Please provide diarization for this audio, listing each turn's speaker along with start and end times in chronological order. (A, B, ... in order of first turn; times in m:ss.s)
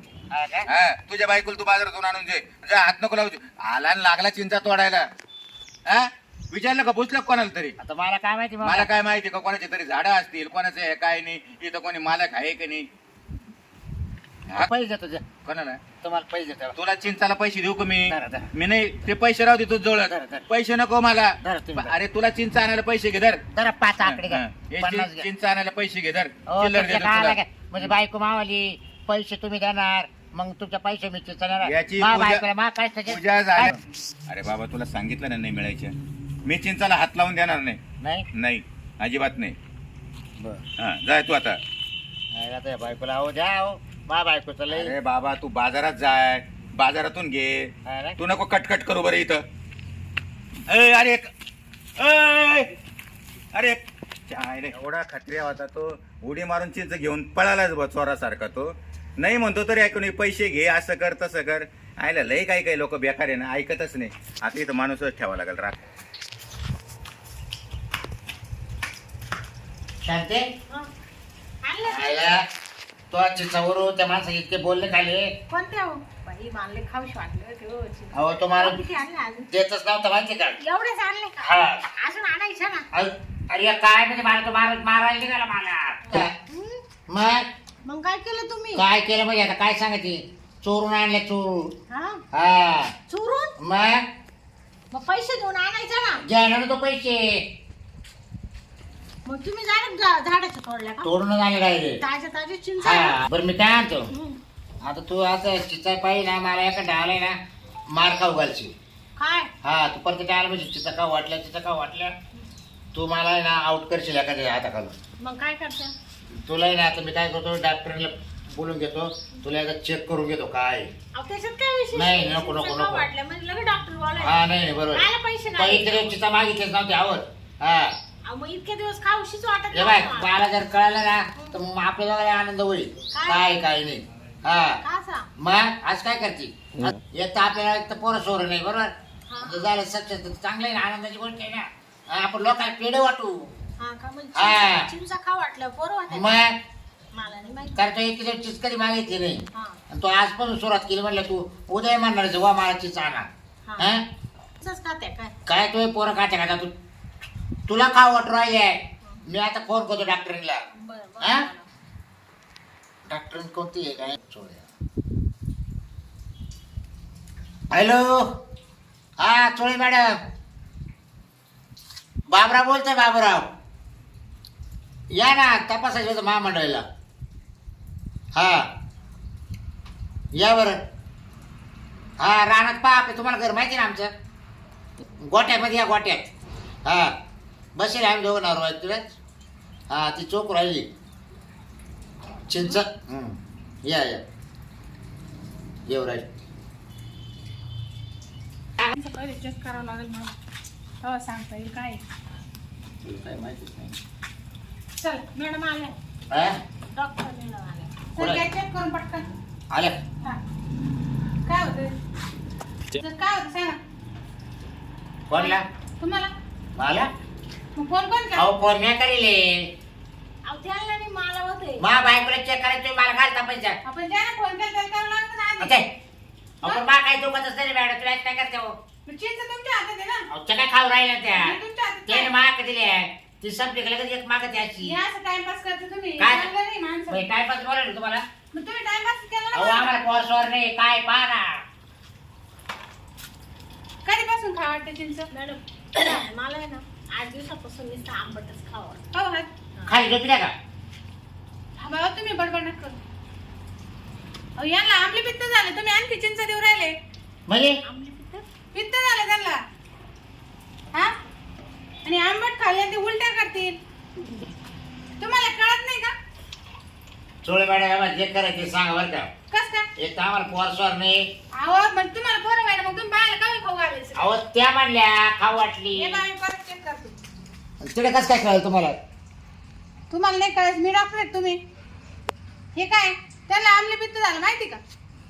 0:00.3-0:00.7 A
0:00.7-0:05.0 B
0:05.9-0:07.7 B
0:07.8-0:08.9 A
0:08.6-0:12.9 B
0:14.5-0:15.2 A
0:15.4-0:15.8 B
0:16.0-0:16.8 A
0:16.8-0:23.4 B
0:18.1-0:18.5 A
0:20.0-0:20.4 A
0:21.4-0:21.9 A
0:23.6-0:25.3 A
0:24.0-0:27.9 B
0:26.5-0:33.7 A
0:31.6-0:32.4 B
0:33.1-0:33.8 B
0:34.3-0:35.9 B
0:36.4-0:37.8 B
0:38.0-0:38.3 A
0:38.3-0:39.6 B
0:40.4-0:40.6 A
0:40.8-0:41.6 B
0:42.3-0:44.9 A
0:44.7-0:49.4 B
0:47.8-0:48.2 A
0:50.7-0:51.2 B
0:52.0-0:52.7 B
0:53.5-1:05.8 B
1:10.0-1:10.5 A
1:11.6-1:12.4 C
1:11.8-1:12.4 A
1:13.1-1:15.3 A
1:15.5-1:19.5 C
1:18.1-1:18.8 A
1:19.5-1:20.6 A
1:20.6-1:22.8 C
1:21.4-1:21.8 A
1:22.9-1:26.3 A
1:26.1-1:26.8 C
1:27.1-1:27.5 A
1:27.8-1:28.8 C
1:28.7-1:31.7 A
1:31.9-1:32.2 C
1:32.3-1:32.9 A
1:33.1-1:33.6 C
1:33.6-1:34.0 A
1:34.9-1:36.2 C
1:36.2-1:37.4 A
1:39.2-1:41.1 C
1:41.0-1:42.0 A
1:42.0-1:43.2 C
1:42.8-1:44.1 A
1:44.1-1:44.4 C
1:44.8-1:47.4 A
1:47.9-1:48.7 A
1:49.2-1:49.5 C
1:49.6-1:52.1 A
1:52.9-1:54.9 A
1:55.2-1:55.9 C
1:56.3-2:00.9 A
2:01.1-2:06.1 C
2:01.9-2:03.1 A
2:04.2-2:08.0 A
2:08.2-2:10.4 C
2:09.7-2:14.8 A
2:13.1-2:13.5 C
2:14.8-2:15.3 C
2:15.4-2:23.6 A
2:19.3-2:19.7 C
2:23.8-2:26.4 C
2:24.3-2:24.9 A
2:26.1-2:26.6 A
2:27.1-2:27.8 C
2:27.8-2:34.0 A
2:29.5-2:29.8 C
2:33.6-2:34.0 C
2:34.6-2:35.3 C
2:35.4-2:36.7 A
2:37.7-2:40.7 A
2:40.7-2:41.7 C
2:41.2-2:41.5 A
2:43.1-2:44.6 A
2:47.7-2:48.3 A
2:49.2-2:50.1 A
2:52.3-2:53.5 A
2:55.1-2:56.8 A
2:58.3-2:58.7 A
3:00.3-3:00.8 A
3:02.2-3:04.1 A
3:05.2-3:06.3 A
3:06.8-3:07.1 A
3:07.7-3:09.1 A
3:09.9-3:10.9 A
3:12.5-3:14.2 A
3:15.9-3:16.2 A
3:18.8-3:20.3 D
3:21.0-3:22.0 D
3:23.0-3:24.0 A
3:25.0-3:25.2 D
3:25.3-3:26.0 C
3:26.3-3:26.6 A
3:26.9-3:27.9 C
3:28.2-3:29.3 D
3:28.2-3:28.4 A
3:29.7-3:30.0 A
3:31.4-3:31.9 D
3:33.0-3:33.8 D
3:35.3-3:35.6 A
3:35.3-3:36.3 D
3:36.8-3:37.1 A
3:37.8-3:38.5 D
3:38.3-3:39.7 A
3:40.4-3:41.9 C
3:41.8-3:43.8 A
3:43.8-3:45.8 D
3:45.6-3:45.9 A
3:46.6-3:48.8 A
3:49.0-3:50.2 D
3:50.3-3:55.0 A
3:51.4-3:52.3 D
3:54.8-3:57.2 D
3:56.2-3:56.5 A
3:57.1-3:58.2 A
3:58.5-4:00.0 D
3:59.5-4:01.6 A
4:04.0-4:05.3 D
4:05.3-4:09.1 C
4:09.1-4:09.5 D
4:09.8-4:10.5 A
4:11.8-4:12.9 D
4:14.6-4:16.9 D
4:17.5-4:17.8 A
4:17.8-4:18.4 C
4:18.7-4:19.6 D
4:22.0-4:23.8 D
4:25.2-4:26.1 D
4:27.4-4:29.3 A
4:29.5-4:29.8 D
4:30.0-4:31.3 A
4:31.6-4:34.2 D
4:34.2-4:36.2 A
4:35.9-4:37.1 D
4:37.8-4:39.0 A
4:40.1-4:41.6 D
4:42.7-4:44.8 D